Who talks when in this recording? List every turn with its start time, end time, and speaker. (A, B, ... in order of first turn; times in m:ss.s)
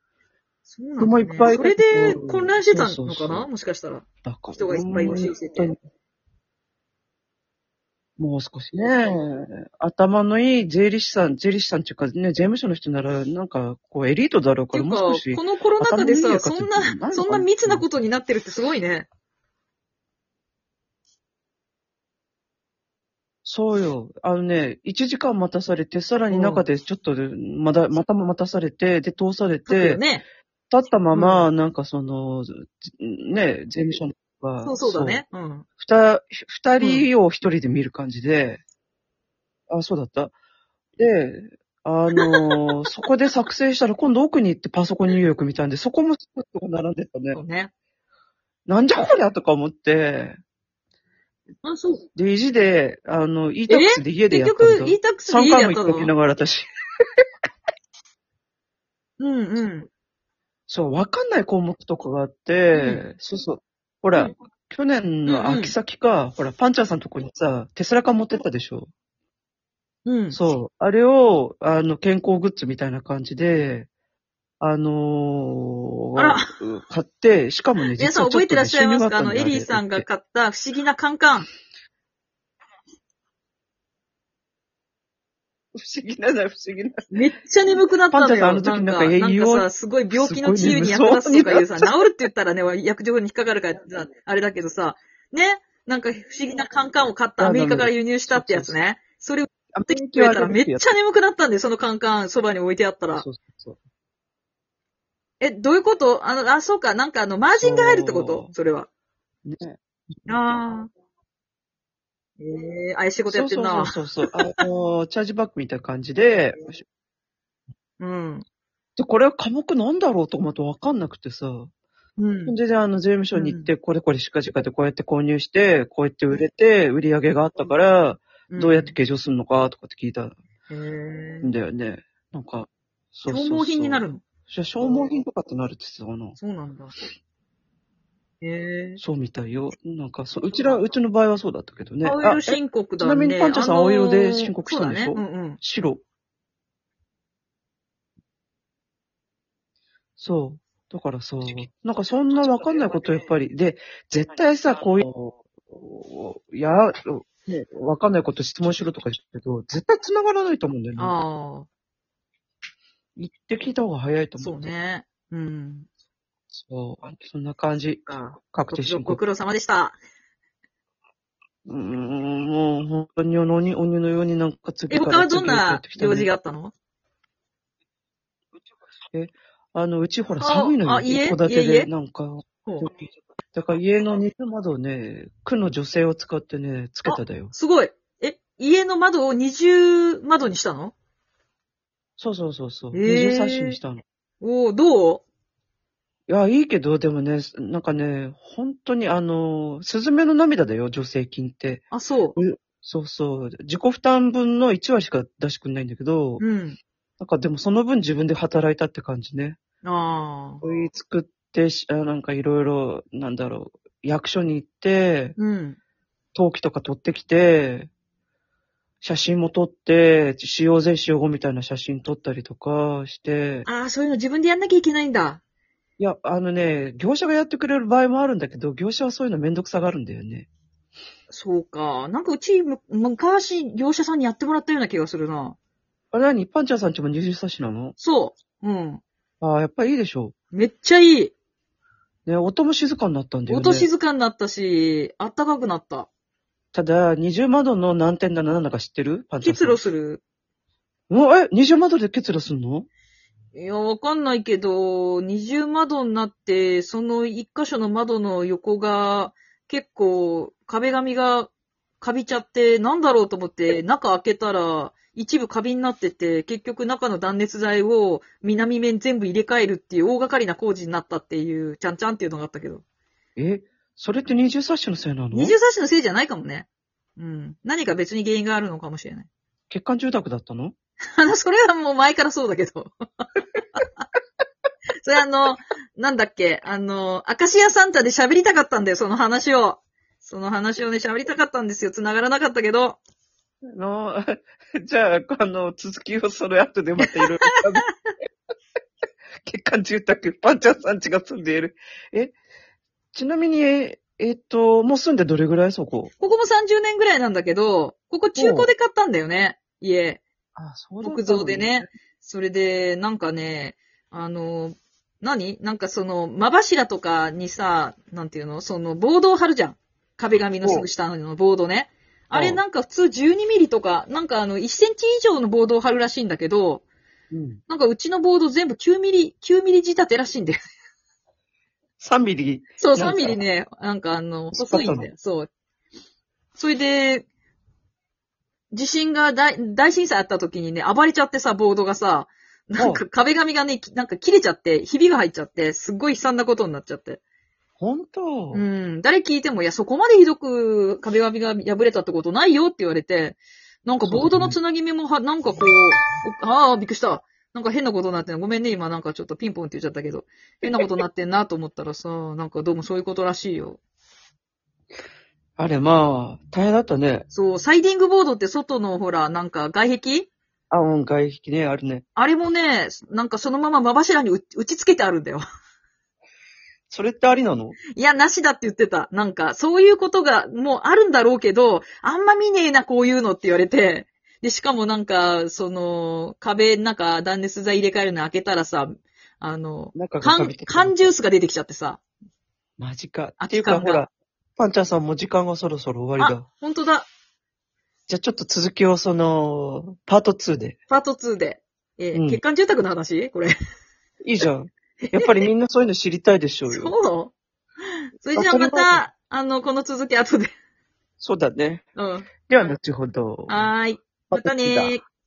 0:00.7-0:05.7 A
0:01.0-0:03.5 B
0:04.2-0:05.8 B
0:08.2-0:17.9 B
0:14.7-0:19.1 A
0:23.4-0:30.0 B
0:26.3-0:26.6 A
0:29.7-0:30.2 A
0:30.7-0:35.2 B
0:31.1-0:31.5 A
0:34.6-0:35.7 A
0:35.8-0:38.6 B
0:36.8-0:37.1 A
0:39.7-0:40.3 B
0:41.0-0:47.4 B
0:42.2-0:42.9 A
0:47.3-0:47.7 A
0:48.7-0:50.4 B
0:51.6-0:52.0 A
0:52.2-0:56.7 B
0:53.7-0:56.1 A
0:59.2-0:59.9 A
1:00.7-1:08.9 B
1:02.7-1:03.0 A
1:05.3-1:05.8 A
1:10.1-1:10.4 A
1:10.3-1:13.9 B
1:14.6-1:20.1 B
1:16.2-1:16.5 A
1:17.9-1:21.5 A
1:25.8-1:27.0 B
1:27.1-1:43.2 A
1:28.1-1:31.9 B
1:37.4-1:38.7 B
1:39.7-1:40.9 B
1:43.1-1:43.8 B
1:45.4-1:48.9 A
1:47.6-1:48.5 B
1:49.4-1:50.6 B
1:50.3-1:50.9 A
1:52.4-1:54.6 A
1:53.3-1:56.8 B
1:58.0-1:58.4 A
1:59.0-2:01.7 B
2:02.2-2:02.6 A
2:02.5-2:10.4 B
2:03.4-2:03.7 A
2:08.5-2:09.0 A
2:10.7-2:11.5 A
2:11.4-2:16.4 B
2:13.3-2:14.2 A
2:16.4-2:16.9 A
2:18.4-2:19.0 A
2:19.0-2:26.0 B
2:22.0-2:25.6 A
2:30.2-2:41.2 B
2:41.0-2:41.7 A
2:43.2-2:44.7 B
2:44.4-2:45.9 A
2:46.5-2:49.2 B
2:48.7-2:50.0 A
2:51.7-2:56.3 B
2:54.9-2:56.7 A
2:59.1-3:07.5 B
3:00.4-3:01.9 A
3:07.1-3:10.9 A
3:12.2-3:14.0 B
3:12.9-3:13.8 A
3:14.4-3:15.2 A
3:16.3-3:21.8 B
3:21.9-3:22.4 A
3:22.4-3:26.4 B
3:26.4-3:26.8 A
3:27.2-3:29.6 B
3:29.8-3:30.6 A
3:30.6-3:35.4 B
3:35.4-3:35.8 A
3:36.4-3:37.9 B
3:39.0-3:43.7 B
3:43.7-3:45.4 A
3:46.0-3:50.5 B
3:51.3-3:55.6 A
3:56.1-3:58.0 B
3:58.0-3:59.0 A
3:59.4-4:00.3 B
4:00.5-4:01.3 A
4:02.3-4:03.9 B
4:03.5-4:06.1 A
4:06.7-4:09.8 B
4:09.4-4:10.2 A
4:11.1-4:12.9 B
4:13.5-4:32.8 A
4:33.4-4:35.6 B
4:35.3-4:36.7 A
4:37.2-4:39.3 A
4:39.7-4:40.7 B
4:41.2-4:43.3 A
4:45.0-4:53.0 A
4:53.7-4:57.9 B
4:57.0-4:57.6 A
4:59.4-5:02.4 B
5:03.1-5:06.1 B
5:06.2-5:10.2 A
5:08.4-5:08.7 B
5:10.6-5:11.9 B
5:11.0-5:26.8 A
5:20.6-5:20.9 B
5:22.3-5:22.6 B
5:27.3-5:27.6 B
5:27.7-5:30.6 A
5:32.0-5:33.4 B
5:32.8-5:35.5 A
5:34.5-5:35.1 B
5:36.6-5:37.3 A
5:38.7-5:47.2 A
5:42.8-5:43.0 B
5:47.8-5:48.7 B
5:48.5-6:03.8 A
5:54.0-5:54.6 B
6:05.6-6:07.3 B
6:07.3-6:10.3 A
6:10.7-6:12.0 B
6:12.2-6:15.4 A
6:16.9-6:17.8 B
6:18.0-6:32.0 A
6:30.0-6:31.1 B
6:32.8-6:36.5 B
6:33.4-6:34.0 A
6:36.2-6:37.1 A
6:38.1-6:40.8 B
6:40.9-6:43.5 A
6:42.1-6:42.4 B
6:44.2-6:47.0 B
6:46.7-6:47.3 A
6:48.2-6:50.5 A
6:48.4-6:49.0 B
6:51.2-6:51.9 B
6:52.0-6:52.3 A
6:52.5-6:53.7 B
6:53.5-6:55.0 A
6:54.3-6:55.0 B